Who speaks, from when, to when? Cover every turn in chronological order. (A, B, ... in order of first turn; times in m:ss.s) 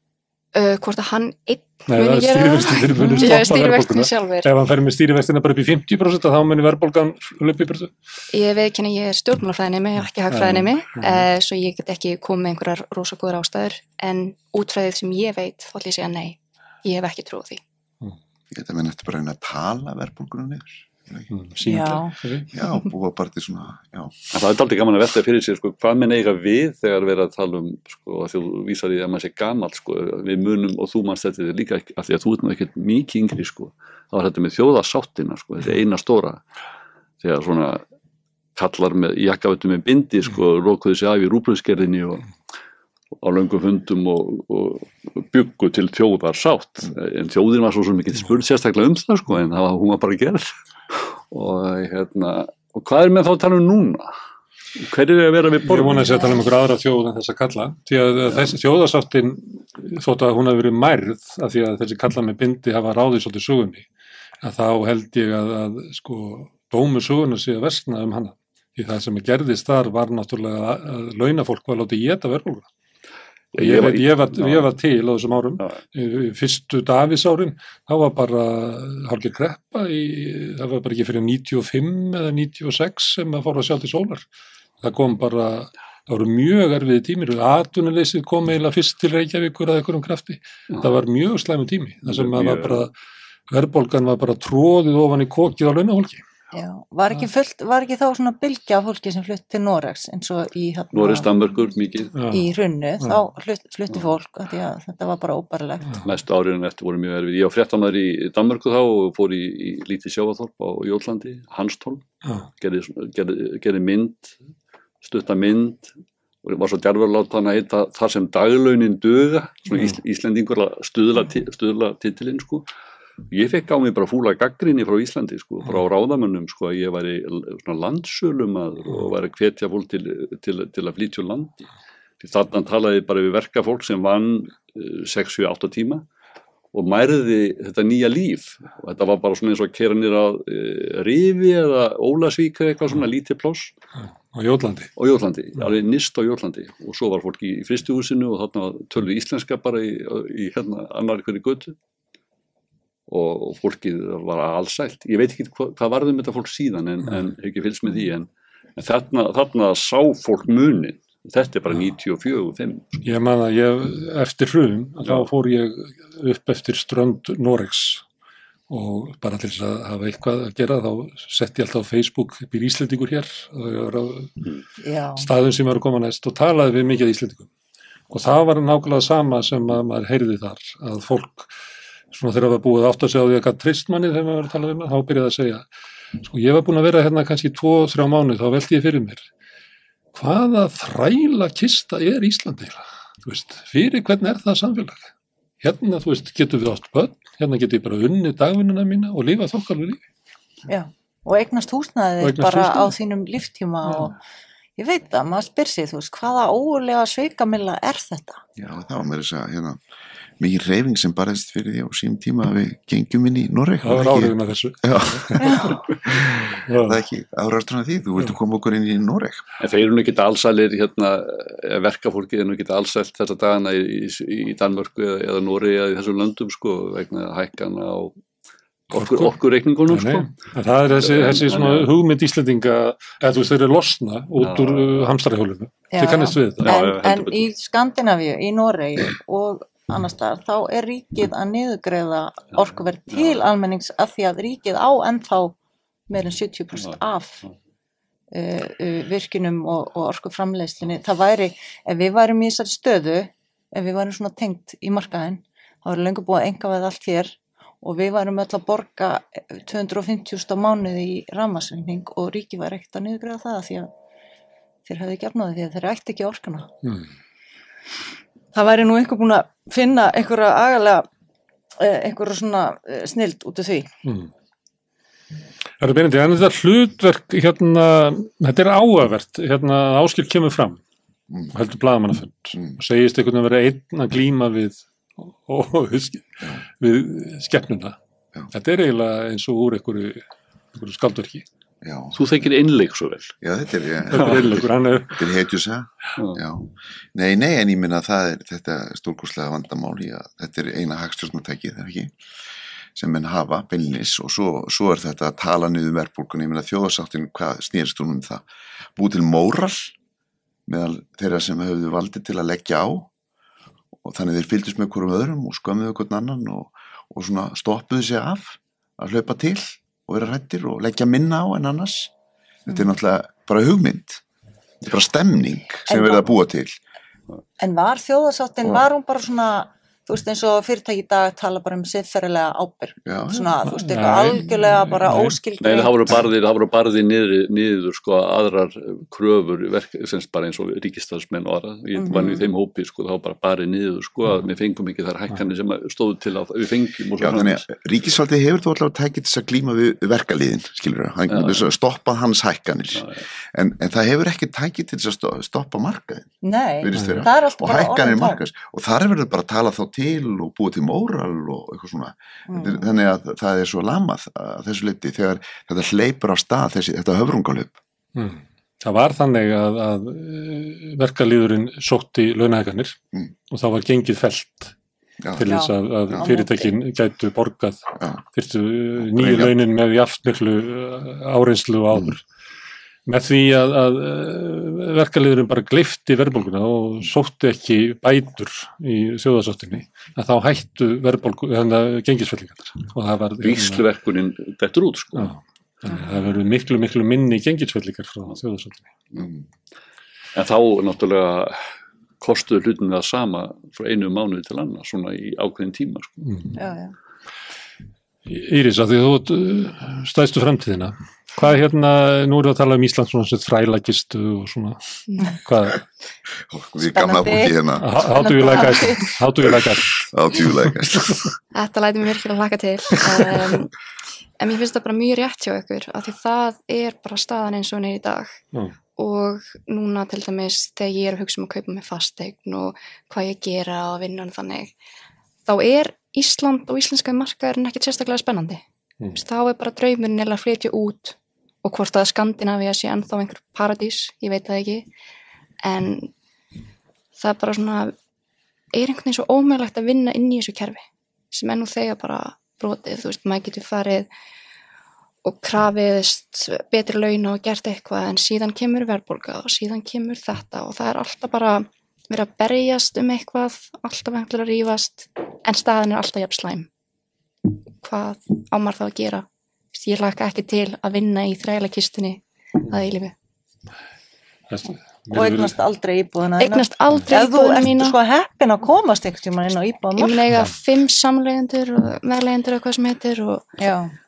0:00.5-0:04.5 A
0:01.9-0:07.9 B
0:08.3-0:17.6 A
0:10.3-0:11.3 B
0:18.5-0:21.3 C
0:21.3-0:22.5 B
0:21.6-0:22.1 D
0:22.5-0:24.1 C
0:24.3-0:36.4 E
0:37.2-0:37.8 E
0:38.6-0:42.3 E
0:43.2-0:54.1 E
0:54.8-0:56.2 E
0:55.6-1:03.9 B
1:04.4-1:12.7 B
1:13.5-1:14.7 E
1:13.6-1:24.3 B
1:24.8-1:32.9 B
1:32.1-1:32.8 E
1:33.5-1:36.2 B
1:36.5-1:41.3 D
1:40.9-1:42.2 E
1:42.2-1:42.5 B
1:42.2-1:46.0 D
1:46.0-1:52.1 E
1:52.6-1:54.4 E
1:55.0-1:55.9 E
1:56.4-2:02.7 E
2:03.3-2:11.7 E
2:12.2-2:16.1 E
2:16.7-2:23.7 E
2:24.3-2:24.9 B
2:25.0-2:31.7 E
2:33.1-2:43.0 E
2:43.0-2:48.0 B
2:48.7-2:54.4 B
2:54.8-2:55.3 D
2:55.2-2:57.5 B
2:58.1-3:01.5 B
3:02.1-3:05.7 B
3:06.2-3:09.3 B
3:10.1-3:15.1 B
3:15.6-3:20.0 B
3:20.7-3:24.2 D
3:22.2-3:22.9 B
3:24.8-3:28.4 D
3:28.6-3:29.8 C
3:30.4-3:39.4 C
3:33.8-3:35.6 B
3:35.4-3:35.8 D
3:36.4-3:37.0 B
3:39.6-3:48.2 E
3:48.9-3:50.3 E
3:48.9-3:49.3 B
3:49.9-3:56.8 B
3:51.0-3:51.9 E
3:54.4-3:54.9 E
3:55.9-4:05.6 D
3:56.6-3:57.5 E
4:02.6-4:03.4 E
4:06.1-4:07.4 D
4:06.8-4:07.5 E
4:08.3-4:23.9 D
4:24.9-4:26.7 D
4:28.5-4:31.1 D
4:31.8-4:33.9 D
4:34.0-4:34.3 B
4:35.8-4:40.8 B
4:41.5-4:46.2 B
4:46.8-4:48.0 B
4:48.5-4:51.5 B
4:51.8-4:52.2 C
4:52.2-4:53.3 E
4:53.4-5:02.1 C
4:54.1-4:55.2 B
5:03.0-5:10.0 C
5:10.7-5:13.1 C
5:14.0-5:22.1 C
5:22.7-5:24.2 C
5:24.8-5:26.8 C
5:25.9-5:26.4 D
5:27.6-5:36.2 D
5:33.0-5:33.7 C
5:33.7-5:35.4 B
5:35.6-5:47.7 E
5:42.0-5:42.4 D
5:47.2-6:07.7 C
5:51.3-5:51.6 E
5:53.0-5:53.2 E
5:56.4-5:58.4 D
5:57.0-5:57.2 B
6:02.5-6:02.9 D
6:08.2-6:13.0 B
6:13.5-6:14.7 B
6:15.2-6:15.6 C
6:15.4-6:22.2 B
6:15.4-6:16.7 D
6:18.0-6:18.2 C
6:19.0-6:19.6 C
6:23.1-6:33.8 B
6:33.4-6:35.3 E
6:35.2-6:38.9 B
6:40.4-6:41.6 E
6:42.2-6:46.1 E
6:46.2-6:46.5 B
6:46.6-6:46.9 D
6:48.3-6:54.8 B
6:55.1-6:55.3 A
6:55.4-6:55.8 B
6:56.5-6:57.9 C
6:56.9-6:57.6 D
6:57.8-7:00.0 B
6:58.2-6:59.1 D
6:59.5-7:01.3 C
7:01.5-7:03.7 A
7:04.4-7:08.3 A
7:09.0-7:14.7 A
7:15.5-7:18.6 A
7:19.1-7:24.8 A
7:25.6-7:26.1 A
7:27.2-7:27.9 A
7:28.7-7:34.1 A
7:35.2-7:46.7 A
7:47.8-7:53.1 A
7:54.5-7:55.6 B
7:55.1-8:00.2 D
7:56.4-7:58.0 A
8:00.0-8:03.5 A
8:03.6-8:04.0 D